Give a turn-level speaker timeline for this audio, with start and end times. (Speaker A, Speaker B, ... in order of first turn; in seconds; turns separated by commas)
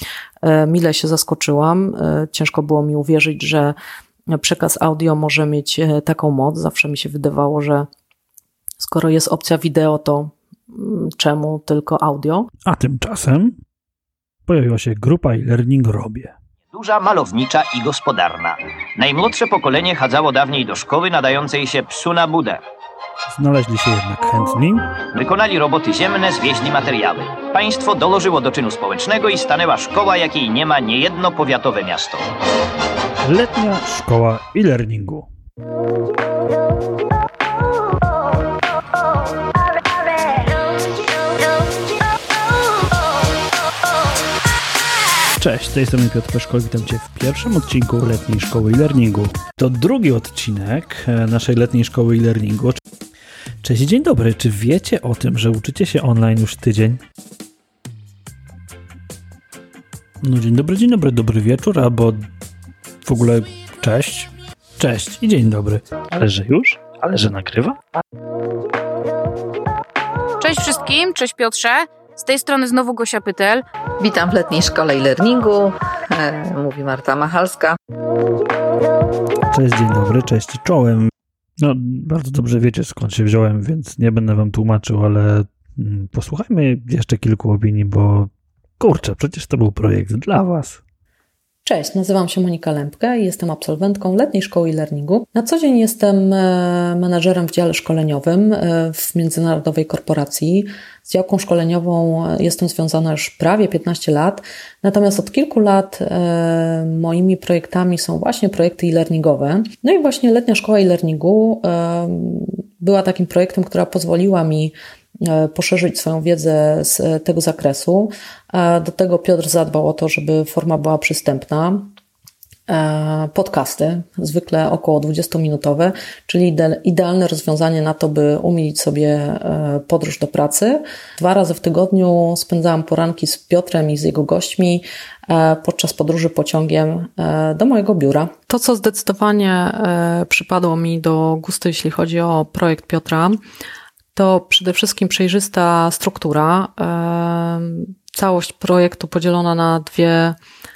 Speaker A: 0.4-3.8, Speaker A: 4.3-7.9, Speaker A: 8.8-12.5, Speaker B: 12.7-13.6, Speaker B: 14.5-16.3, Speaker C: 16.7-22.6, Speaker B: 23.3-24.9, Speaker C: 25.1-32.3, Speaker B: 33.2-35.3, Speaker B: 45.4-52.8, Speaker B: 53.6-57.0, Speaker B: 60.2-62.3, Speaker B: 63.0-67.8, Speaker D: 70.4-73.6, Speaker E: 74.0-77.8, Speaker B: 79.5-90.8, Speaker A: 91.6-121.9, Speaker A: 122.7-143.4, Speaker A: 144.1-150.3